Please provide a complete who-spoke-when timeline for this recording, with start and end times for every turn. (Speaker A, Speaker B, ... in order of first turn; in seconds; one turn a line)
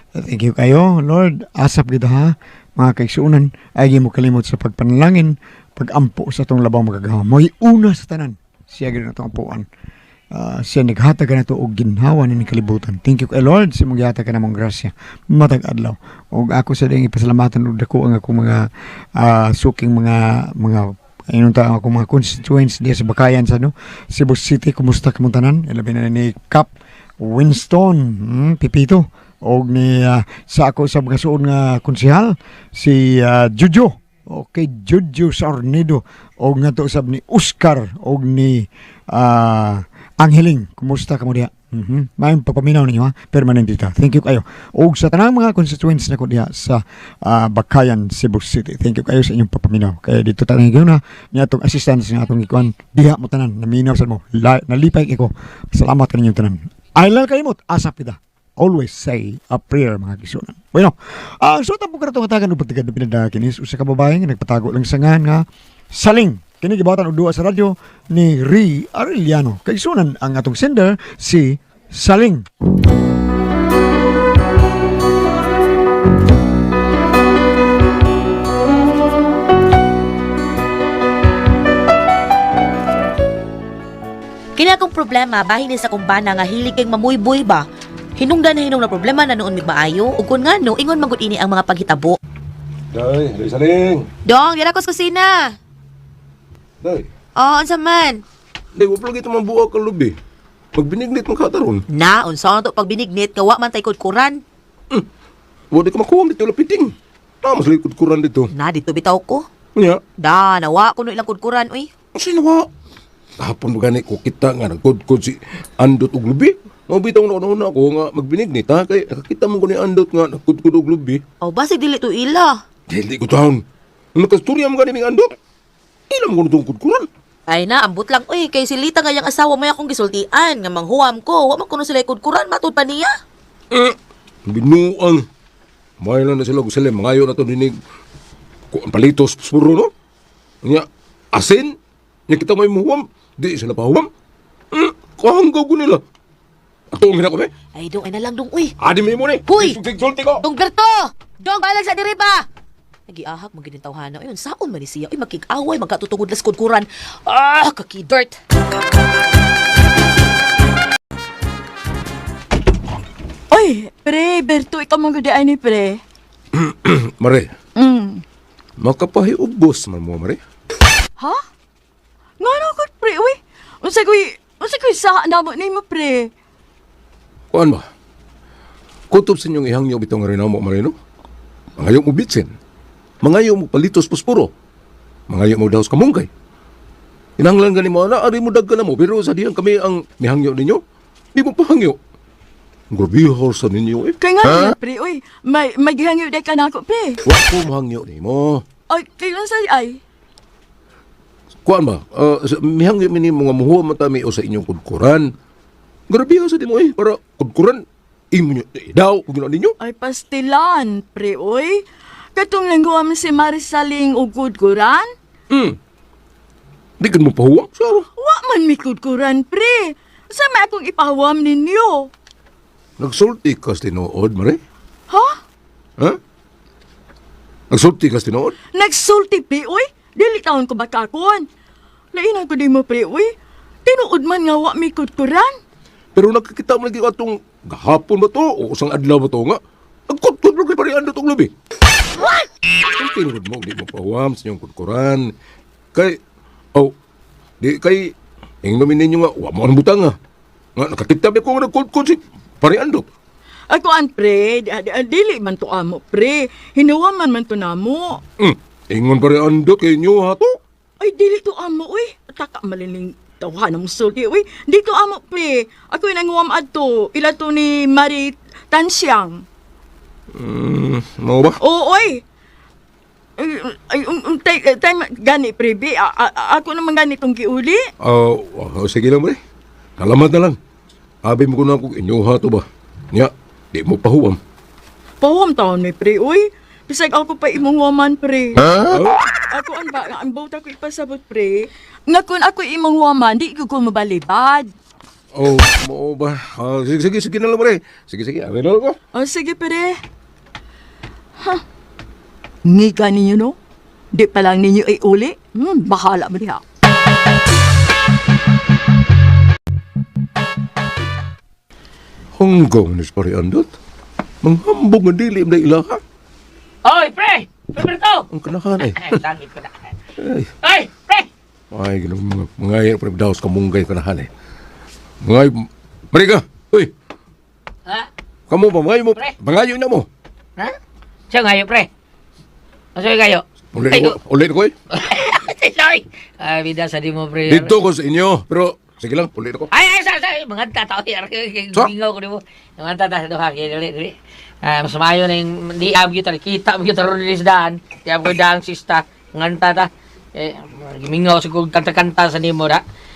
Speaker A: 0.1-9.7
Speaker A: 10.3-18.6
Speaker A: 19.2-26.7
Speaker A: 27.2-65.4
Speaker A: 66.0-72.5
Speaker B: 84.6-92.2
Speaker C: 92.9-94.1
Speaker B: 94.2-95.5
Speaker C: 96.8-97.1
Speaker B: 97.3-98.2
Speaker C: 98.7-100.2
Speaker C: 100.7-101.8
Speaker B: 101.9-104.4
Speaker C: 105.7-108.5
Speaker B: 108.5-109.5
Speaker C: 109.8-110.0
Speaker B: 110.2-111.9
Speaker C: 112.1-112.7
Speaker C: 113.4-121.2
Speaker B: 121.4-122.6
Speaker C: 122.9-123.6
Speaker C: 124.1-125.3
Speaker C: 126.1-127.1
Speaker B: 127.5-133.2
Speaker C: 133.7-135.2
Speaker C: 136.0-137.8
Speaker C: 138.7-139.9
Speaker C: 140.6-141.8
Speaker C: 142.3-144.1
Speaker C: 144.7-146.0
Speaker C: 146.9-147.5
Speaker B: 147.7-148.7
Speaker C: 148.8-150.4
Speaker B: 149.4-149.8
Speaker B: 150.4-152.4
Speaker B: 153.1-158.4
Speaker D: 163.5-166.0
Speaker C: 166.5-167.5
Speaker D: 167.8-168.2
Speaker C: 168.8-170.4
Speaker D: 172.4-176.3
Speaker C: 177.5-177.8
Speaker C: 179.1-180.9
Speaker C: 181.8-182.5
Speaker C: 183.2-184.5
Speaker C: 185.3-186.3
Speaker C: 187.4-190.8
Speaker C: 191.3-192.0
Speaker C: 192.9-194.7
Speaker D: 194.2-197.2
Speaker C: 197.2-198.6
Speaker D: 198.9-200.0
Speaker C: 201.6-205.3
Speaker C: 206.1-209.7
Speaker D: 209.8-211.8
Speaker D: 212.3-215.1
Speaker C: 215.5-215.8
Speaker C: 217.0-218.1
Speaker D: 218.2-222.1
Speaker C: 223.0-224.6
Speaker D: 225.1-225.4
Speaker C: 227.7-228.5
Speaker D: 228.7-231.4
Speaker D: 232.1-233.3
Speaker D: 233.8-235.6
Speaker C: 236.1-241.5
Speaker C: 242.9-245.3
Speaker C: 245.9-246.2
Speaker C: 247.6-248.1
Speaker C: 248.6-250.2
Speaker C: 250.8-253.1
Speaker D: 253.7-258.2
Speaker C: 258.4-260.6
Speaker D: 261.0-269.4
Speaker C: 270.3-271.6
Speaker D: 271.6-272.2
Speaker D: 273.4-277.9
Speaker C: 278.0-279.4
Speaker C: 280.0-280.6
Speaker C: 281.2-284.4
Speaker D: 285.2-288.8
Speaker C: 288.8-289.2
Speaker D: 289.4-294.7
Speaker C: 295.3-299.0
Speaker D: 299.1-300.0
Speaker D: 302.6-303.6
Speaker D: 304.1-306.6
Speaker C: 312.4-313.7
Speaker C: 314.4-316.0
Speaker E: 316.8-318.2
Speaker C: 318.3-319.2
Speaker E: 318.9-319.9
Speaker C: 320.2-320.5
Speaker E: 320.6-321.3
Speaker C: 321.7-324.3
Speaker C: 325.2-326.9
Speaker C: 328.5-330.1
Speaker E: 331.3-331.9
Speaker E: 332.9-334.1
Speaker C: 333.7-334.7
Speaker E: 334.9-337.8
Speaker C: 337.5-339.7
Speaker E: 339.7-352.8